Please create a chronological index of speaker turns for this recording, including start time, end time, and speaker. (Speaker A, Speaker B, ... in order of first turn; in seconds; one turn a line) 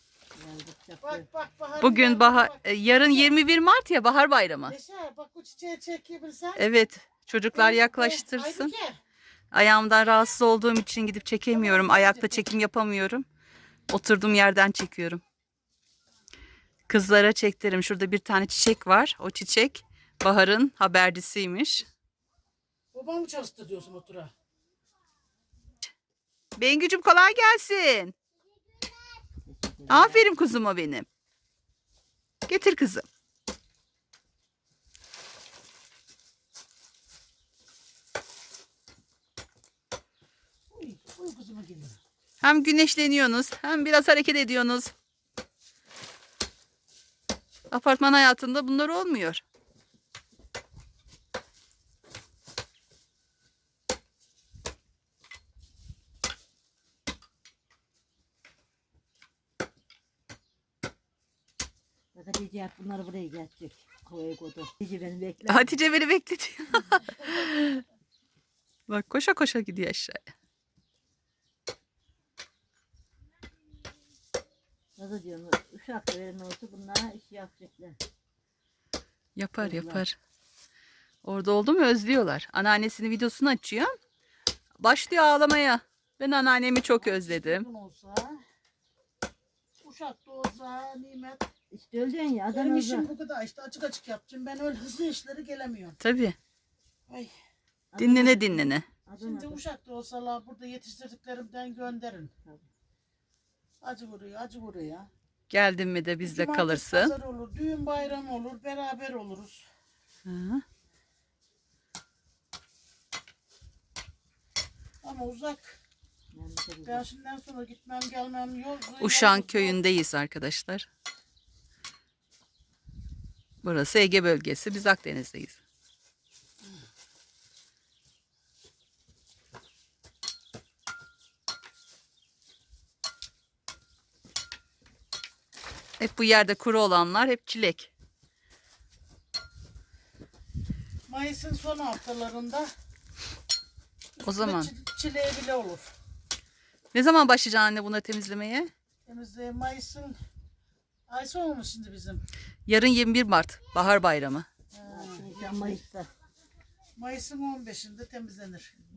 Speaker A: 0.3-1.2
Speaker B: 1.0-3.4
Speaker C: 1.8-4.7
Speaker B: 4.7-6.7
Speaker C: 6.5-8.7
Speaker B: 7.5-9.0
Speaker C: 9.5-13.2
Speaker B: 11.5-12.5
Speaker C: 13.9-15.2
Speaker C: 16.9-21.9
Speaker B: 22.9-24.3
Speaker C: 26.6-28.1
Speaker A: 29.4-30.3
Speaker C: 29.9-31.1
Speaker C: 32.5-33.0
Speaker B: 40.7-42.0
Speaker C: 42.4-44.9
Speaker C: 47.7-49.4
Speaker A: 62.1-65.7
Speaker C: 65.5-67.8
Speaker C: 68.9-70.3
Speaker A: 75.0-78.0
Speaker C: 79.3-80.2
Speaker A: 79.6-80.0
Speaker C: 81.2-83.9
Speaker C: 84.8-87.7
Speaker B: 86.8-88.4
Speaker B: 89.8-91.5
Speaker A: 91.7-93.1
Speaker B: 92.5-96.0
Speaker C: 96.0-96.4
Speaker A: 97.9-99.6
Speaker C: 98.0-98.9
Speaker B: 99.2-102.3
Speaker B: 103.8-105.1
Speaker C: 105.5-107.1
Speaker B: 106.2-109.7
Speaker C: 110.2-110.6
Speaker B: 115.0-115.8
Speaker A: 116.3-117.0
Speaker B: 116.8-119.8
Speaker C: 119.0-120.9
Speaker C: 123.6-125.6
Speaker C: 136.0-137.9
Speaker B: 141.1-142.7
Speaker B: 144.2-145.9
Speaker C: 144.2-144.7
Speaker C: 146.9-148.7
Speaker B: 149.1-150.1
Speaker B: 151.1-152.2
Speaker C: 152.7-154.5
Speaker B: 154.7-155.8
Speaker A: 154.8-156.1
Speaker B: 156.9-158.7